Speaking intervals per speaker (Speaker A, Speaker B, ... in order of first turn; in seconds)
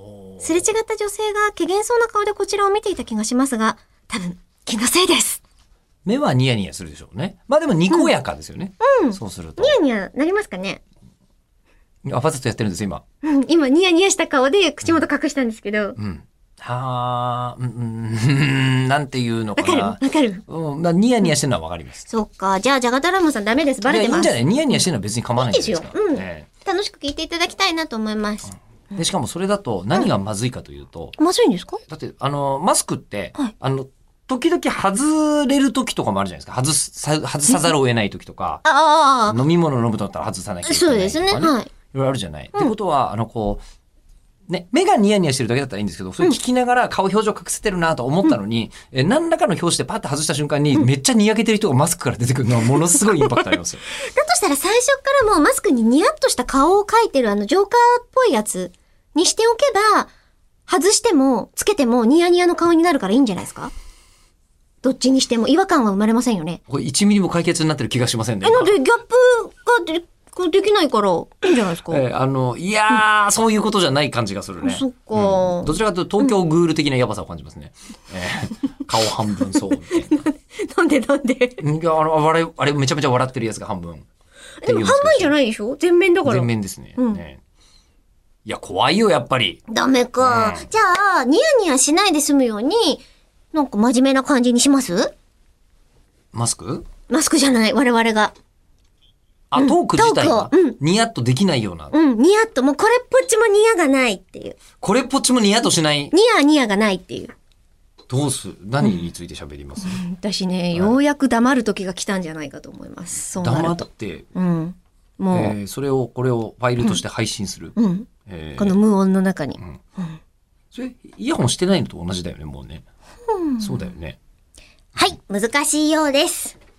Speaker A: 0.4-5.4, 8.8-10.8, 13.2-16.0, 19.6-20.4, 22.1-24.4, 25.4-29.0, 31.2-31.8, 38.6-39.4, 40.6-41.7, 54.0-60.1, 60.7-63.7, 64.8-66.6, 68.4-72.0, 74.6-76.3, 79.9-81.6, 84.6-87.2, 89.7-95.1, 97.1-98.3, 99.5-100.8, 101.9-104.6, 106.1-107.3, 109.8-115.5, 117.8-120.2, 123.3-123.9, 124.9-126.5
Speaker B: 6.0-9.8, 12.0-13.0, 16.0-22.1, 23.9-26.5, 28.9-31.1, 31.9-38.6, 39.3-43.6, 44.5-53.8, 66.7-68.7, 71.5-80.1, 81.6-84.0, 84.7-85.3, 86.2-87.4, 88.4-89.6, 90.2-90.7, 96.3-96.8, 99.5-101.9, 104.8-106.1, 108.1-110.0, 113.4-114.3, 115.3-118.7, 120.7-122.8, 123.6-124.2